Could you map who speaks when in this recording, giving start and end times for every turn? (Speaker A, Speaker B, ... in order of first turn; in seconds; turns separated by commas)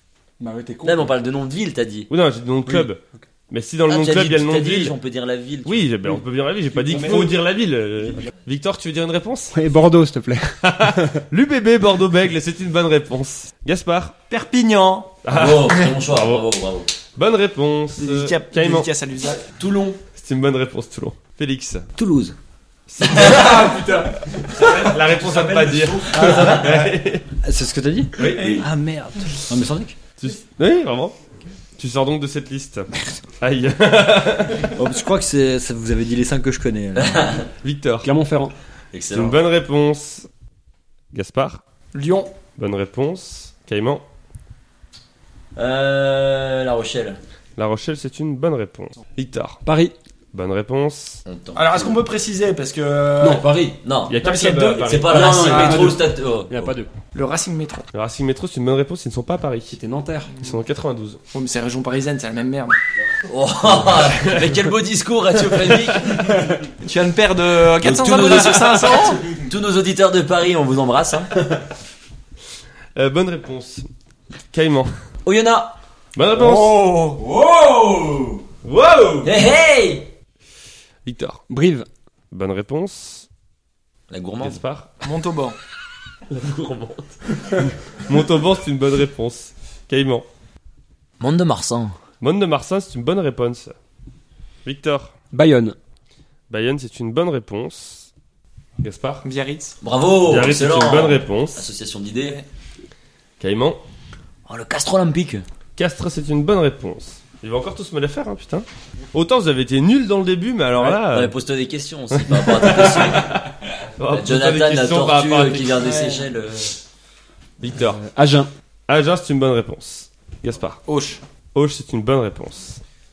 Speaker A: 0.4-1.0, Speaker B: 0.8-2.1, Speaker C: 2.1-4.9, Speaker B: 3.9-5.9, Speaker C: 5.6-9.6, Speaker A: 6.8-7.3, Speaker A: 9.5-11.2, Speaker C: 10.6-14.2, Speaker D: 14.3-15.2, Speaker C: 15.2-16.4, Speaker B: 15.3-16.9, Speaker C: 17.1-18.9, Speaker D: 18.0-19.5, Speaker B: 19.6-20.0, Speaker C: 20.1-21.9, Speaker E: 21.9-22.3, Speaker C: 22.9-27.2, Speaker A: 23.2-23.9, Speaker F: 25.1-26.2, Speaker E: 26.1-26.7, Speaker E: 27.4-30.0, Speaker C: 28.2-28.6, Speaker C: 30.2-31.1, Speaker C: 31.8-32.9, Speaker C: 33.4-34.7, Speaker E: 34.8-37.4, Speaker B: 37.0-37.5, Speaker C: 37.6-38.1, Speaker A: 38.0-38.5, Speaker B: 38.9-39.4, Speaker C: 39.1-40.3, Speaker C: 41.1-41.6, Speaker D: 41.9-42.3, Speaker C: 42.6-44.0, Speaker B: 45.5-47.2, Speaker C: 47.6-49.6, Speaker A: 49.6-49.9, Speaker C: 50.3-51.2, Speaker B: 51.2-52.0, Speaker D: 51.5-53.5, Speaker A: 53.2-53.7, Speaker B: 53.8-54.2, Speaker C: 54.1-55.8, Speaker D: 54.2-56.0, Speaker B: 54.8-56.8, Speaker A: 55.1-56.9, Speaker D: 57.1-57.9, Speaker C: 57.9-59.8, Speaker A: 59.7-60.3, Speaker C: 60.4-61.2, Speaker D: 61.3-62.8, Speaker B: 63.3-66.3, Speaker D: 66.8-69.2, Speaker B: 67.8-71.3, Speaker C: 73.0-73.9, Speaker C: 74.5-74.9, Speaker B: 75.2-75.7, Speaker C: 76.1-76.9, Speaker F: 77.2-78.3, Speaker C: 78.6-79.3, Speaker B: 79.2-80.1, Speaker C: 81.0-81.4, Speaker A: 81.5-81.9, Speaker C: 82.3-83.2, Speaker B: 84.1-84.6, Speaker C: 84.4-84.9, Speaker D: 85.0-85.5, Speaker C: 86.3-90.2, Speaker B: 91.2-92.0, Speaker C: 92.2-93.7, Speaker C: 94.6-95.1, Speaker A: 95.3-95.8, Speaker C: 96.5-98.1, Speaker C: 98.8-99.2, Speaker D: 99.2-99.8, Speaker B: 99.8-102.4, Speaker C: 100.2-101.6, Speaker C: 103.4-103.8, Speaker B: 104.5-105.4, Speaker C: 105.8-111.3, Speaker B: 110.8-113.3, Speaker C: 112.1-116.0, Speaker B: 114.1-116.8, Speaker D: 115.8-116.2, Speaker C: 117.6-118.0, Speaker A: 117.9-118.5, Speaker C: 118.9-120.8, Speaker D: 120.9-121.2, Speaker C: 121.5-122.8